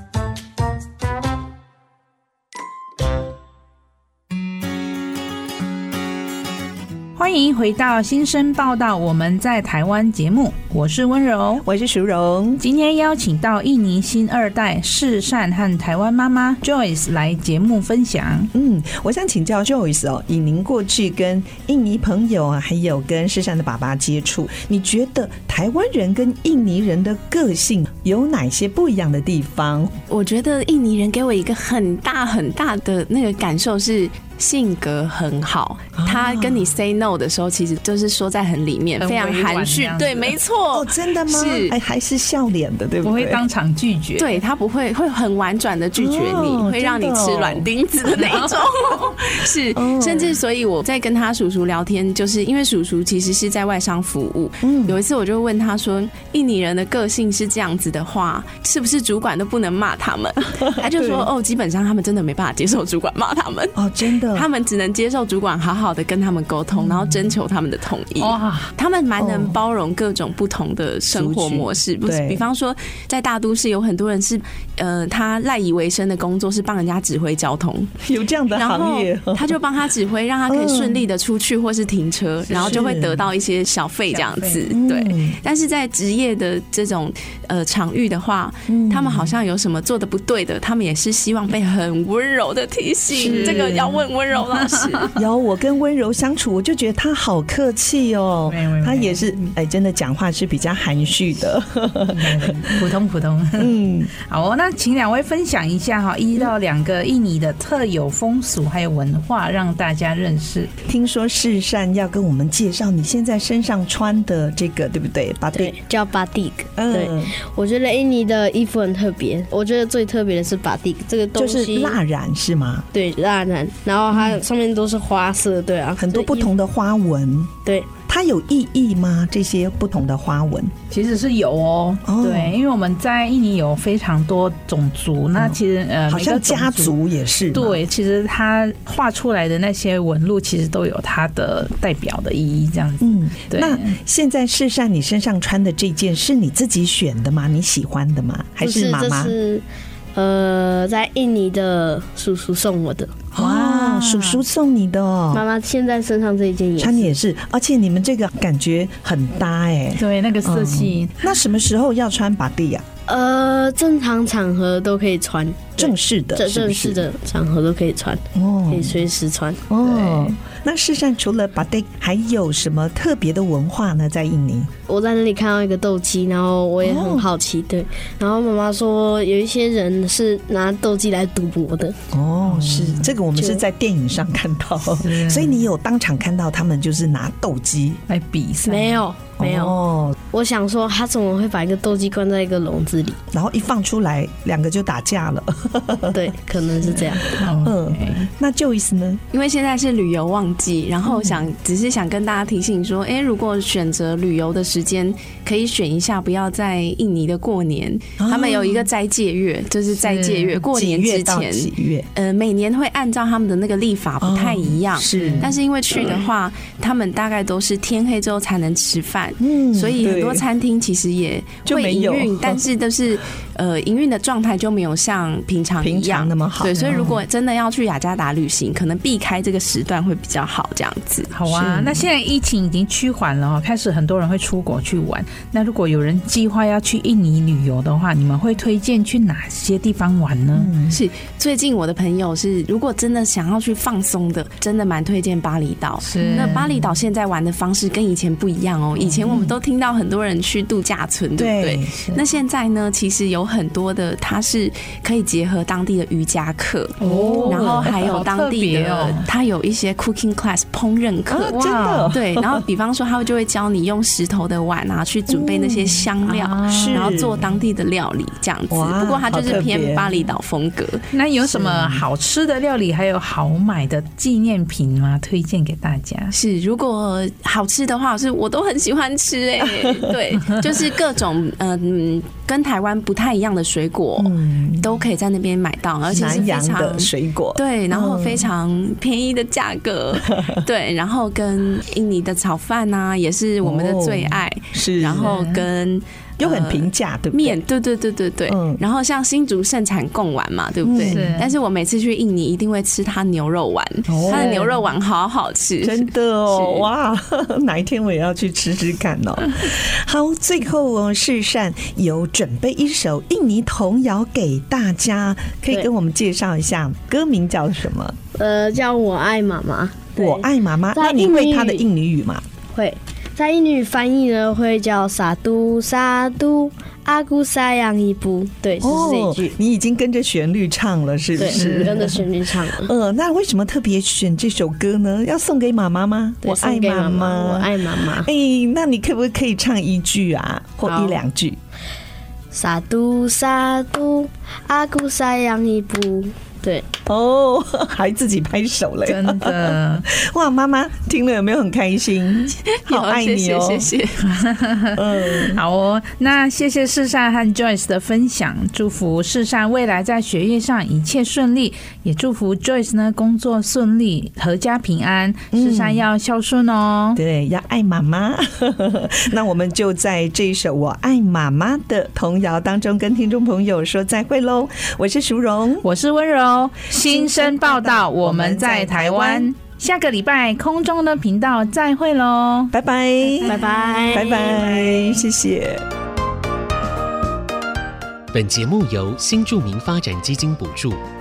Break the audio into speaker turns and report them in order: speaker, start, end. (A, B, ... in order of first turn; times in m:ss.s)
0:07.2-0:11.6 A
0:11.6-0:12.6 B
0:12.6-0:18.5 A
0:18.5-0:30.0 B
0:30.1-0:41.8 C
0:36.0-0:36.7 B
0:39.0-0:40.4 A
0:40.7-0:43.5 B
0:43.0-0:44.4 A
0:44.2-1:03.8 C
0:46.0-0:47.7 B
0:49.8-0:50.4 B
0:54.6-0:55.0 B
1:00.6-1:01.3 B
1:03.8-1:04.5 B
1:04.3-1:17.9 C
1:06.8-1:07.2 B
1:08.2-1:08.7 A
1:09.2-1:09.6 B
1:11.1-1:12.4 B
1:18.0-1:19.6 B
1:18.5-1:35.1 C
1:20.5-1:21.0 B
1:22.5-1:22.9 A
1:22.5-1:23.2 B
1:24.1-1:24.6 A
1:24.7-1:25.4 B
1:28.7-1:29.3 B
1:33.1-1:34.0 B
1:33.2-1:34.0 A
1:35.2-1:42.9 B
1:38.5-1:39.5 A
1:42.1-1:50.7 A
1:43.6-1:44.1 B
1:50.8-1:55.8 B
1:55.5-2:02.0 D
1:56.8-1:57.3 B
2:01.3-2:02.9 B
2:02.9-2:06.5 D
2:06.0-2:07.5 B
2:07.7-2:07.9 D
2:08.1-2:10.7 B
2:10.9-2:17.0 A
2:12.0-2:12.6 B
2:15.4-2:17.8 B
2:17.5-2:24.0 A
2:23.0-2:29.4 B
2:28.6-2:33.2 D
2:33.3-2:35.4 B
2:33.4-2:34.4 A
2:35.3-2:37.1 D
2:36.8-2:42.8 B
2:40.0-2:41.2 A
2:43.1-2:49.6 D
2:45.8-2:47.0 B
2:48.3-2:49.0 B
2:49.7-2:54.7 B
2:49.9-2:50.3 A
2:54.9-3:02.0 D
2:56.8-2:57.3 B
3:02.1-3:08.0 B
3:02.5-3:03.1 A
3:03.4-3:03.6 D
3:05.0-3:05.6 A
3:08.1-3:09.0 A
3:08.6-3:09.8 D
3:09.4-3:10.2 B
3:10.3-3:13.2 D
3:13.3-3:16.3 B
3:16.1-3:17.3 D
3:17.0-3:18.3 A
3:17.5-3:19.2 B
3:19.3-3:51.3 C
3:21.0-3:21.4 B
3:28.2-3:28.9 B
3:30.0-3:30.6 A
3:30.7-3:32.1 B
3:34.2-3:35.5 B
3:35.2-3:35.5 A
3:39.4-3:40.4 B
3:41.7-3:42.6 B
3:45.8-3:47.1 B
3:46.7-3:47.2 A
3:51.3-4:00.7 A
3:51.5-3:52.1 B
4:00.5-4:01.0 B
4:00.9-4:21.6 C
4:06.0-4:06.7 A
4:06.2-4:06.7 B
4:09.0-4:09.3 A
4:09.2-4:09.5 B
4:11.4-4:11.9 B
4:17.0-4:19.3 A
4:17.0-4:18.0 B
4:21.3-4:22.6 B
4:21.5-4:22.1 A
4:22.1-4:31.1 C
4:25.3-4:26.1 B
4:26.3-4:27.2 A
4:26.7-4:27.5 B
4:28.7-4:30.2 B
4:31.1-4:36.3 A
4:31.4-4:32.0 B
4:36.3-5:06.9 C
4:39.7-4:40.1 B
4:44.2-4:44.9 B
4:46.1-4:48.4 B
4:53.6-4:55.3 B
4:55.2-4:55.6 A
4:56.4-4:57.6 B
4:58.5-4:58.8 B
5:00.8-5:01.4 B
5:01.0-5:01.5 A
5:04.1-5:04.8 A
5:04.1-5:04.7 B
5:05.8-5:18.2 B
5:18.4-5:21.8 D
5:20.2-5:22.4 B
5:22.7-5:29.5 D
5:28.8-5:41.6 B
5:31.4-5:32.9 D
5:31.5-5:32.2 A
5:36.4-5:38.3 D
5:42.5-5:46.9 D
5:47.1-5:53.9 B
5:49.1-5:50.1 A
5:52.7-5:54.2 C
5:54.2-6:07.2 A
5:55.0-5:55.6 B
6:05.5-6:06.0 B
6:07.2-6:15.9 B
6:15.8-6:22.7 A
6:16.9-6:19.5 B
6:22.7-6:25.8 B
6:23.4-6:25.2 D
6:28.3-6:31.0 E